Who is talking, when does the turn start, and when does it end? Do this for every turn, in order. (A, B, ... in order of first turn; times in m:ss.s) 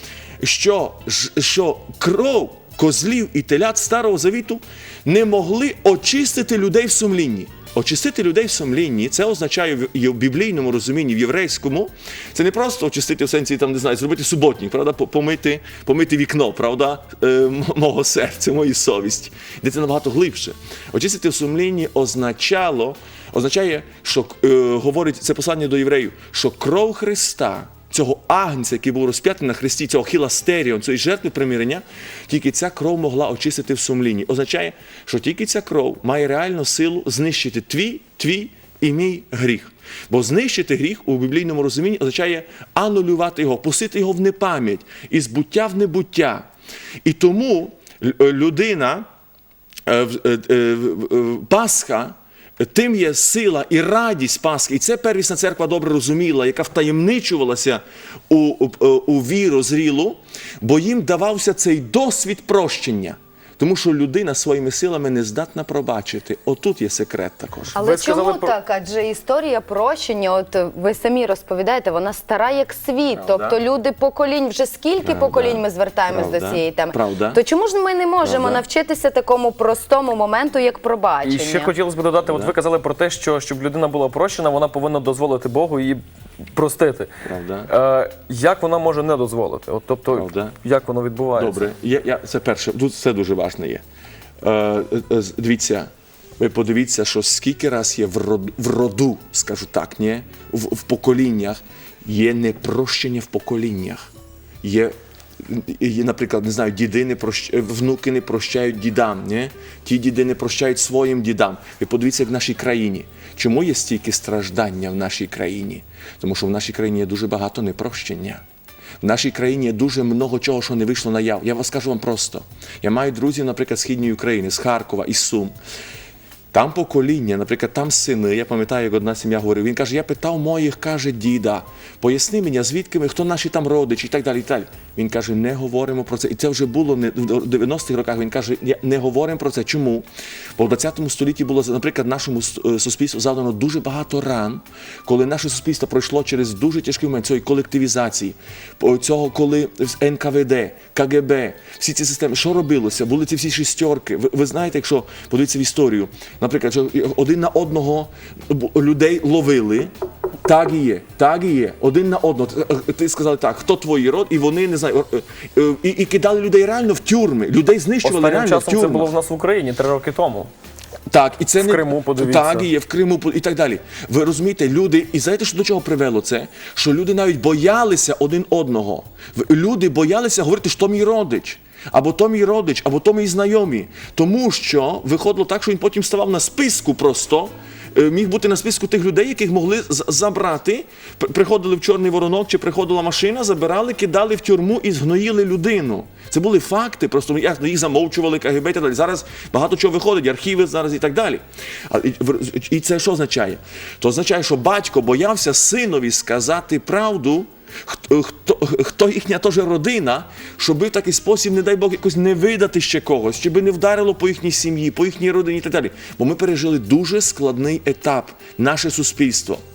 0:00.4-0:46.5 A
0:47.0-0:49.1 A
0:49.9-1:07.8 A
1:07.8-1:21.7 B
1:07.8-1:08.5 C
1:13.1-1:13.6 A
1:15.0-1:17.4 A
1:18.2-1:18.6 A
1:21.2-1:26.0 C
1:22.3-1:22.5 A
1:26.6-1:27.1 C
1:27.2-1:27.7 A
1:27.7-1:31.6 C
1:30.1-1:30.6 A
1:31.4-1:33.8 A
1:34.4-1:44.1 A
1:44.6-1:58.4 A
1:59.0-2:05.5 A
2:06.5-2:20.1 A
2:20.6-2:39.9 A
2:40.4-2:49.1 A
2:48.0-2:50.5 C
2:51.1-3:39.6 A
2:51.6-2:52.7 C